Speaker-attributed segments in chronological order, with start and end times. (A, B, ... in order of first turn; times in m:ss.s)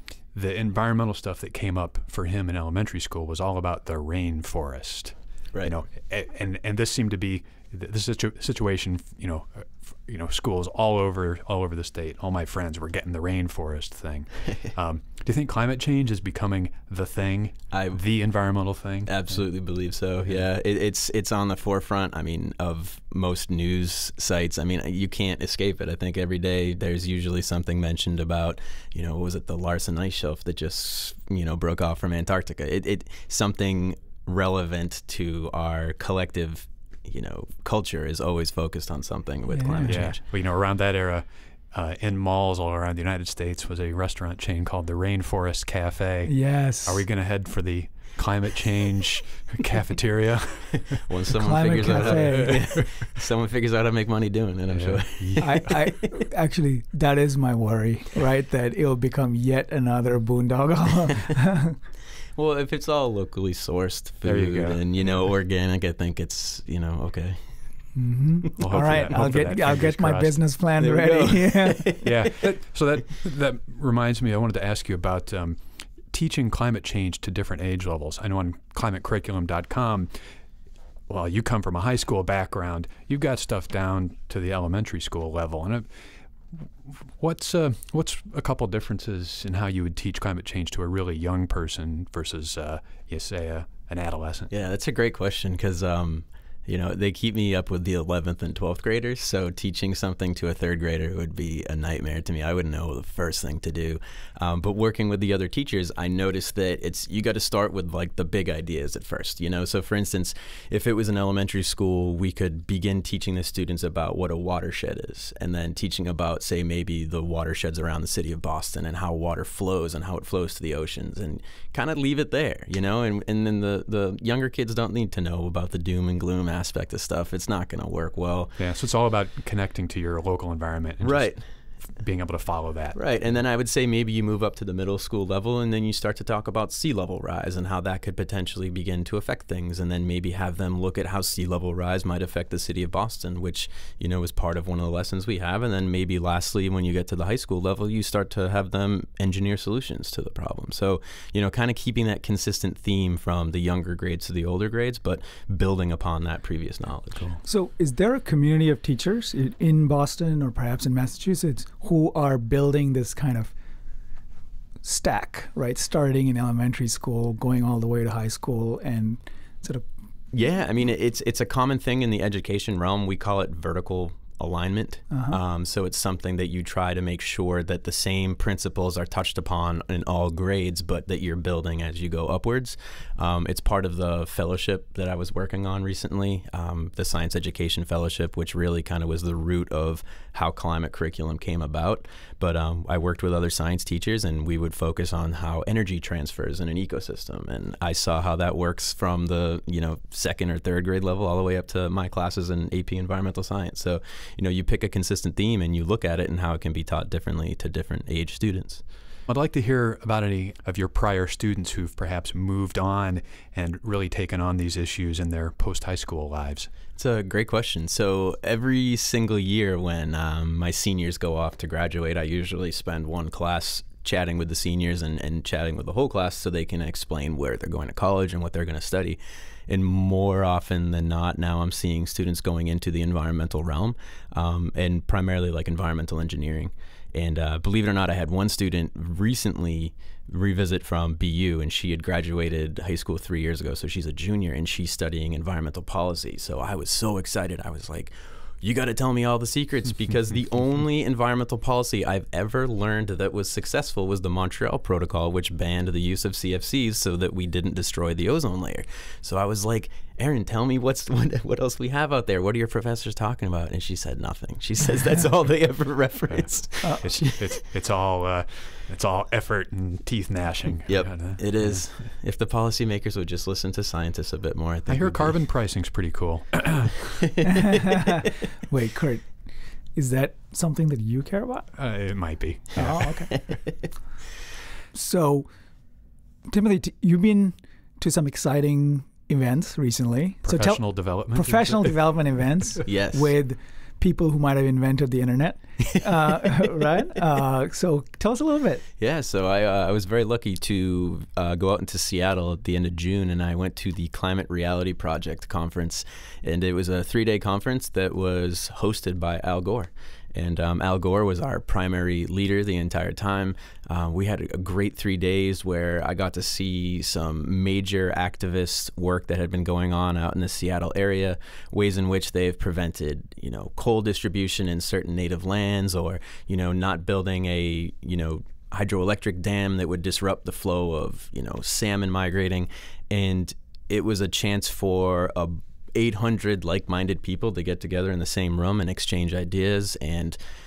0:00.3-0:19.4 A
0:17.7-0:18.0 B
0:19.0-0:40.2 B
0:39.5-0:40.1 C
0:39.8-0:51.0 A
0:46.3-0:47.0 C
0:50.9-0:55.9 B
0:51.4-0:52.7 C
0:51.7-0:52.8 A
0:54.7-0:55.8 A
0:55.4-1:01.7 C
1:02.4-1:07.4 B
1:04.2-1:04.8 A
1:07.9-1:11.8 C
1:08.6-1:10.4 A
1:08.6-1:09.2 B
1:10.8-1:12.3 B
1:12.0-1:20.3 A
1:21.1-1:34.5 A
1:34.5-2:08.5 B
2:08.6-2:11.3 A
2:11.0-2:11.4 B
2:12.0-2:13.0 A
2:12.9-2:37.3 B
2:37.4-2:43.5 C
2:44.8-2:49.8 C
2:50.3-3:28.8 B
2:55.1-2:55.4 C
3:29.3-3:36.7 A
3:37.0-4:27.3 B
4:27.0-4:31.8 A
4:30.9-4:35.3 B
4:34.9-4:37.2 A
4:37.7-4:38.1 C
4:38.7-4:39.3 C
4:39.9-4:41.7 C
4:41.7-4:43.1 A
4:42.8-4:43.3 C
4:43.3-4:43.6 B
4:44.9-4:45.5 C
4:46.5-4:58.8 C
4:50.4-4:51.9 A
4:52.8-4:53.3 B
4:59.0-5:40.4 B